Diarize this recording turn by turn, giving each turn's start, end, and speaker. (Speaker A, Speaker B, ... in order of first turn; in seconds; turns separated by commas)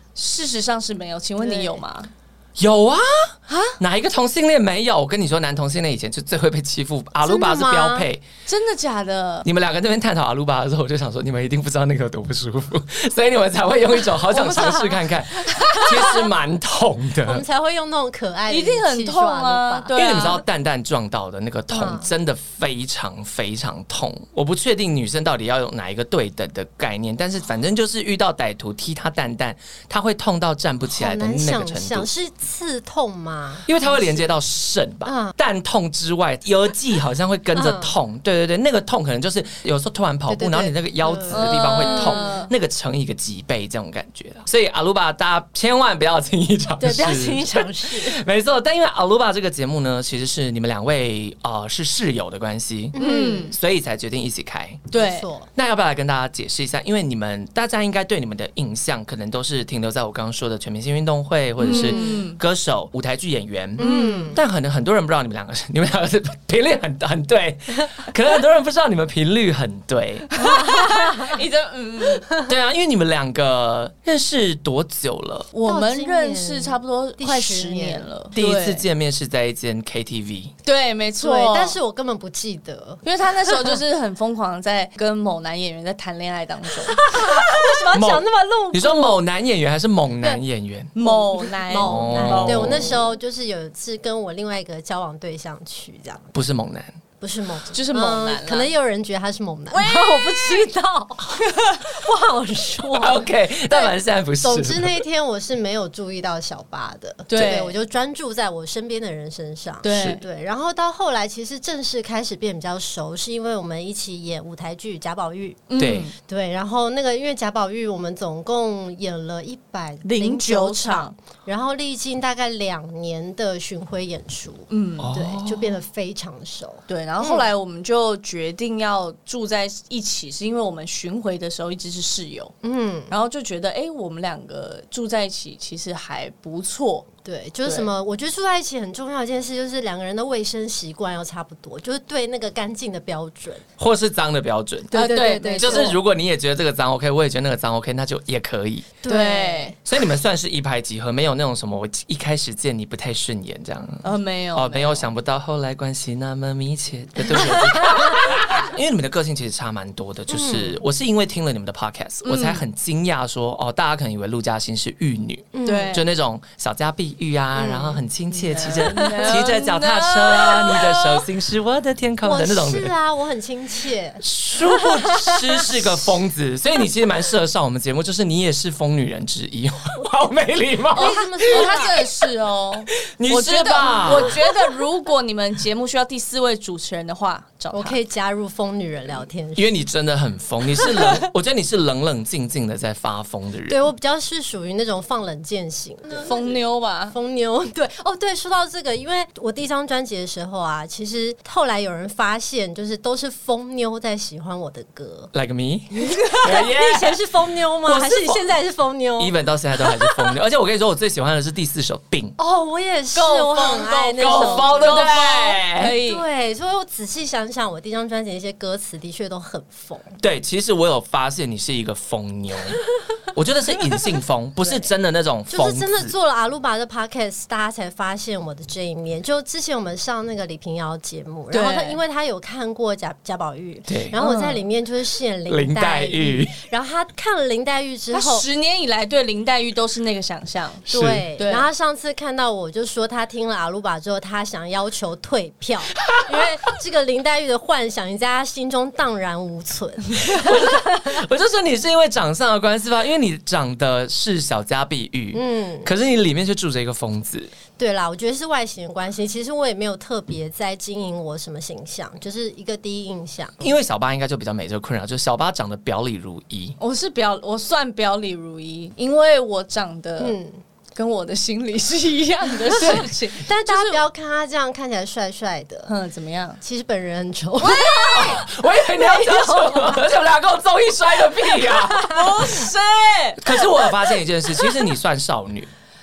Speaker A: 0.1-2.1, Speaker B: 1.4-1.8, Speaker C: 2.6-8.2, Speaker A: 3.5-3.8, Speaker B: 7.2-8.1, Speaker A: 8.5-9.5, Speaker C: 9.4-17.4, Speaker B: 14.2-16.3, Speaker B: 17.2-20.4, Speaker A: 18.5-20.4, Speaker C: 19.9-32.1, Speaker B: 21.7-22.1, Speaker B: 30.9-34.3, Speaker C: 33.6-54.9, Speaker B: 35.0-35.3, Speaker B: 37.5-37.9, Speaker B: 40.3-42.4, Speaker A: 41.3-42.5, Speaker B: 46.8-48.2, Speaker B: 52.9-53.5, Speaker A: 52.9-53.5, Speaker A: 54.9-55.3, Speaker B: 54.9-55.5, Speaker C: 55.5-70.6, Speaker A: 61.6-62.4, Speaker B: 61.6-62.2, Speaker B: 63.8-64.4, Speaker A: 63.8-64.4, Speaker A: 70.4-72.3, Speaker B: 70.6-71.3, Speaker C: 72.4-75.5, Speaker A: 75.5-78.8, Speaker B: 75.6-78.1, Speaker C: 78.3-80.5, Speaker A: 80.6-81.8, Speaker B: 81.2-83.8, Speaker A: 83.0-87.1, Speaker B: 86.9-89.2, Speaker C: 87.9-90.9, Speaker A: 90.9-93.0, Speaker B: 91.0-96.3, Speaker C: 91.7-93.0, Speaker C: 96.3-97.0, Speaker B: 97.2-127.5, Speaker A: 97.7-98.7, Speaker A: 99.7-100.7, Speaker A: 101.4-101.9, Speaker C: 102.9-105.0, Speaker A: 107.3-107.8, Speaker A: 109.8-110.2, Speaker C: 109.9-110.2, Speaker A: 115.7-116.1, Speaker C: 115.8-116.1, Speaker A: 120.0-121.1, Speaker A: 124.7-125.1, Speaker C: 125.0-125.8, Speaker A: 126.9-132.5, Speaker B: 132.6-133.1, Speaker A: 133.1-137.1, Speaker B: 137.2-143.6, Speaker C: 143.8-145.0, Speaker A: 144.9-146.0, Speaker B: 144.9-146.0, Speaker C: 145.6-149.0, Speaker B: 149.0-149.8, Speaker A: 149.0-149.7, Speaker C: 149.8-172.9, Speaker A: 154.0-155.1, Speaker B: 157.3-158.2, Speaker B: 160.3-160.8, Speaker A: 162.2-162.6, Speaker B: 165.5-166.0, Speaker A: 165.6-166.1, Speaker B: 167.5-168.0, Speaker A: 168.3-171.2, Speaker B: 169.1-169.4, Speaker B: 172.2-176.1, Speaker C: 174.2-181.8, Speaker B: 180.9-182.0, Speaker A: 180.9-188.0, Speaker C: 183.2-184.4, Speaker B: 184.1-184.5, Speaker B: 187.7-189.7, Speaker C: 189.6-193.8, Speaker B: 190.8-191.2, Speaker B: 193.7-196.5, Speaker A: 196.2-197.1, Speaker B: 197.1-205.3, Speaker C: 205.3-208.5, Speaker B: 205.9-210.3, Speaker C: 209.2-212.3, Speaker B: 212.4-215.2, Speaker A: 213.1-216.2, Speaker C: 214.2-216.0, Speaker B: 216.0-220.2, Speaker C: 220.2-226.1, Speaker B: 225.5-238.5, Speaker A: 231.5-232.0, Speaker C: 233.9-234.2, Speaker A: 234.2-234.6, Speaker C: 235.5-236.6, Speaker A: 238.1-241.7, Speaker C: 240.9-241.3, Speaker B: 240.9-251.2, Speaker C: 246.0-246.4, Speaker C: 250.2-257.5, Speaker B: 255.3-255.9, Speaker B: 257.8-263.7, Speaker C: 263.6-266.8, Speaker A: 266.8-270.4, Speaker B: 270.2-270.6, Speaker A: 270.9-274.0, Speaker B: 272.7-275.9, Speaker C: 272.8-273.1, Speaker A: 275.9-276.6, Speaker B: 276.6-280.1, Speaker A: 277.6-278.4, Speaker C: 278.1-282.2, Speaker B: 281.6-282.6, Speaker A: 282.0-284.1, Speaker C: 283.4-285.7